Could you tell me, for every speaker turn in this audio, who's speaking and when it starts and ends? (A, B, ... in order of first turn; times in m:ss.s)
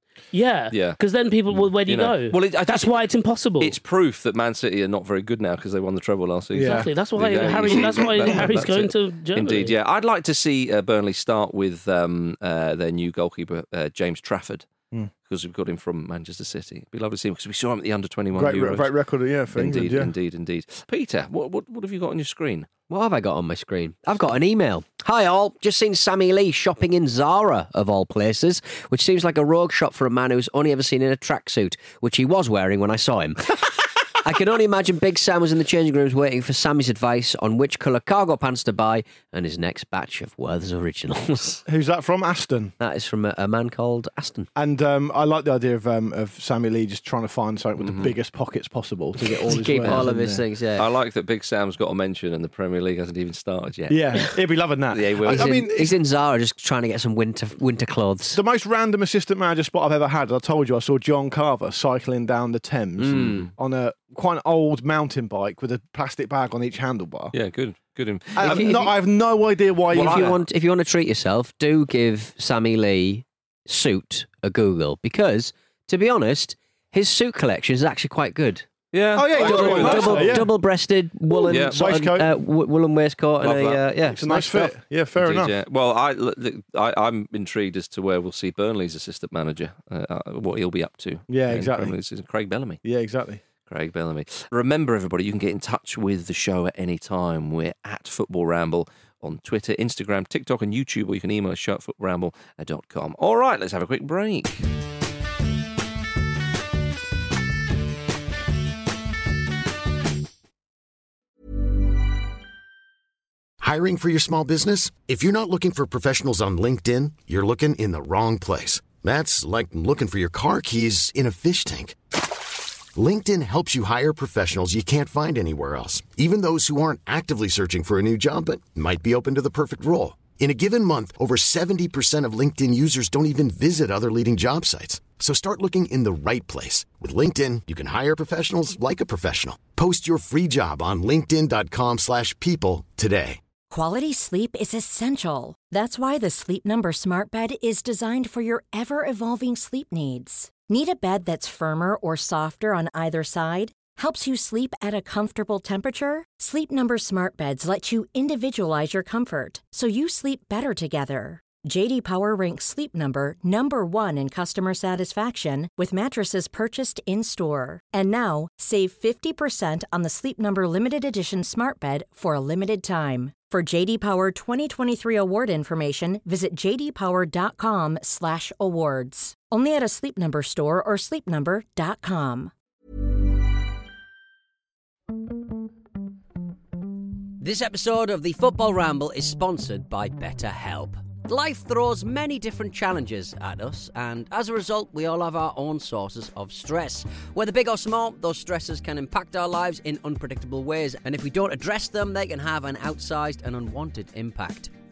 0:00.3-0:03.8 A
0:00.7-0:01.0 B
0:01.5-0:03.0 B
0:03.6-0:14.7 B
0:06.5-0:06.9 C
0:06.6-0:09.8 A
0:07.5-0:08.4 C
0:15.2-0:18.9 B
0:18.3-0:20.1 C
0:19.5-0:22.7 B
0:22.9-0:41.6 D
0:41.6-0:42.7 C
0:42.8-0:44.5 D
0:44.6-0:50.4 C
0:47.8-0:48.1 B
0:49.4-0:50.9 D
0:50.8-0:54.3 B
0:53.9-0:55.9 C
0:54.9-0:55.6 B
0:55.2-0:58.4 D
0:58.3-1:07.3 C
1:03.0-1:03.5 D
1:03.1-1:03.5 B
1:07.3-1:08.9 B
1:08.4-1:10.4 C
1:08.4-1:08.9 D
1:09.9-1:10.4 B
1:09.9-1:18.7 D
1:18.9-1:20.5 B
1:19.1-1:20.5 C
1:19.2-1:24.7 D
1:21.4-1:22.3 C
1:21.5-1:21.8 B
1:23.4-1:23.8 B
1:24.1-1:25.5 C
1:25.2-1:32.8 B
1:31.3-1:32.0 C
1:32.8-1:33.4 C
1:33.7-1:44.6 B
1:53.6-2:02.0 E
2:02.9-2:23.4 E
2:23.7-3:02.5 F
3:07.4-3:24.7 D